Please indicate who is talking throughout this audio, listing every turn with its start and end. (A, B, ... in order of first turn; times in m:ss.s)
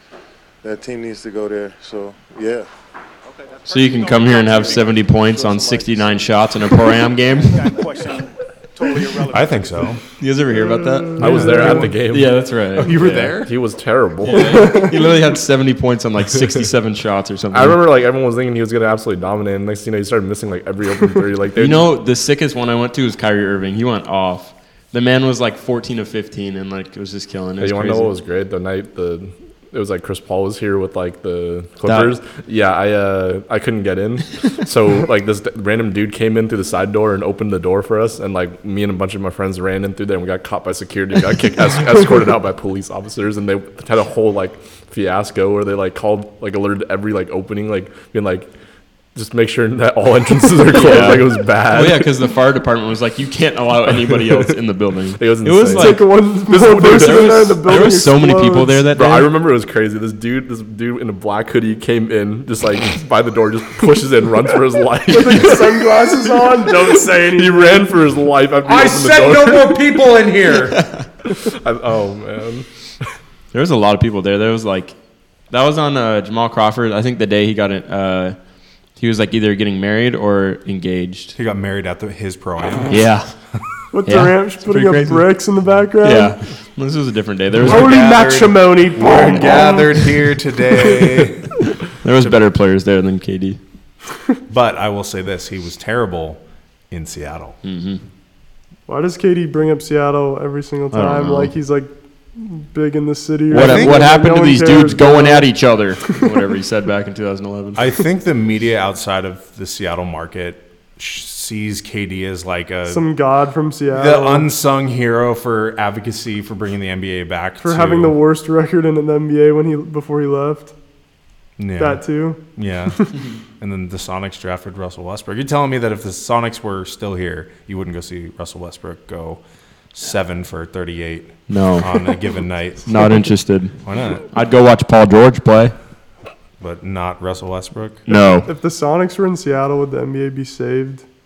0:00.6-0:02.7 A
0:03.5-0:05.1 B
0:03.7-0:07.8 C
0:05.4-0:05.9 A
0:07.4-0:09.9 B
0:09.3-0:10.0 D
0:10.2-0:13.3 C
0:10.5-0:11.9 E
0:11.2-0:14.8 F
0:12.8-0:13.5 D
0:14.2-0:17.8 C
0:14.4-0:14.9 E
0:17.5-0:21.9 F
0:21.6-0:28.1 C
0:27.6-0:48.5 F
0:31.8-0:32.2 C
0:49.1-0:52.1 F
0:50.7-0:59.3 C
0:55.2-0:57.6 F
0:55.7-0:58.8 E
0:58.9-1:09.8 F
1:05.1-1:08.0 E
1:08.6-1:10.8 D
1:11.4-1:12.7 F
1:13.5-1:15.0 C
1:15.5-1:18.4 C
1:18.9-1:21.4 C
1:21.4-1:23.0 D
1:22.9-1:23.3 C
1:23.9-1:26.4 E
1:24.0-1:25.4 C
1:26.0-1:28.0 C
1:27.6-1:30.2 E
1:27.6-1:31.6 D
1:32.0-1:33.6 C
1:34.5-1:37.6 D
1:37.6-1:38.0 C
1:38.9-1:45.8 E
1:40.9-1:41.5 C
1:43.5-1:47.9 C
1:43.6-1:44.0 D
1:47.8-1:53.2 D
1:52.9-1:54.4 E
1:53.9-1:58.2 D
1:57.6-2:00.7 E
2:01.6-2:09.4 D
2:01.8-2:02.4 E
2:09.9-2:13.3 D
2:11.5-2:11.9 C
2:12.9-2:13.8 C
2:13.8-2:14.3 D
2:14.3-2:15.8 C
2:16.6-2:18.1 D
2:18.1-2:18.5 C
2:18.4-2:21.0 E